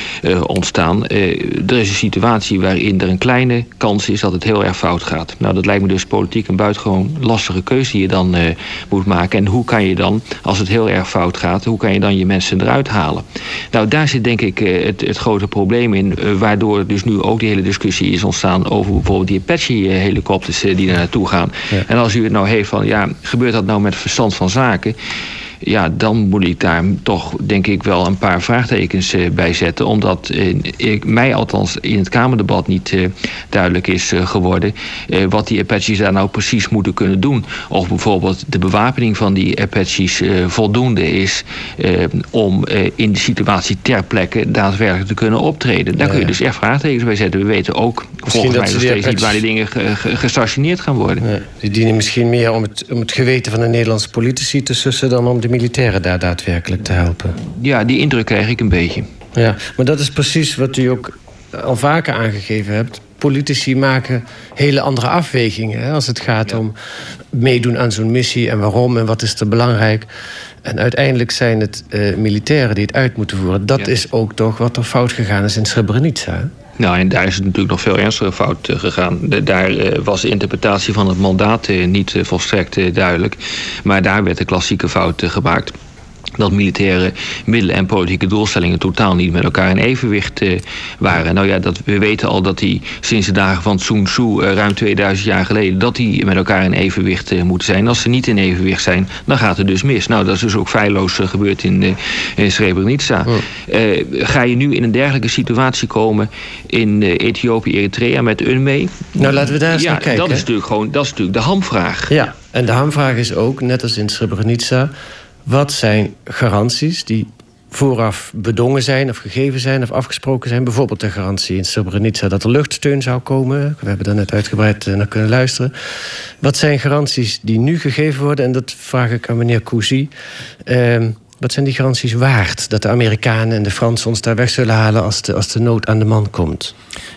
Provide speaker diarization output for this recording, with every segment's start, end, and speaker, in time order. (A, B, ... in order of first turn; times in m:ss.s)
0:00.2-0:25.0 A
0:25.6-0:51.2 A
0:46.0-0:46.4 B
0:48.2-0:49.4 B
0:51.2-0:57.4 B
0:57.6-0:59.1 A
0:59.4-1:06.8 B
1:07.3-1:10.1 B
1:10.6-1:16.5 B
1:16.8-1:25.7 A
1:26.4-1:52.1 A
1:49.2-1:50.5 B
1:52.1-1:54.9 B
1:55.5-2:05.7 B
2:06.4-2:10.1 B
2:10.7-2:16.7 B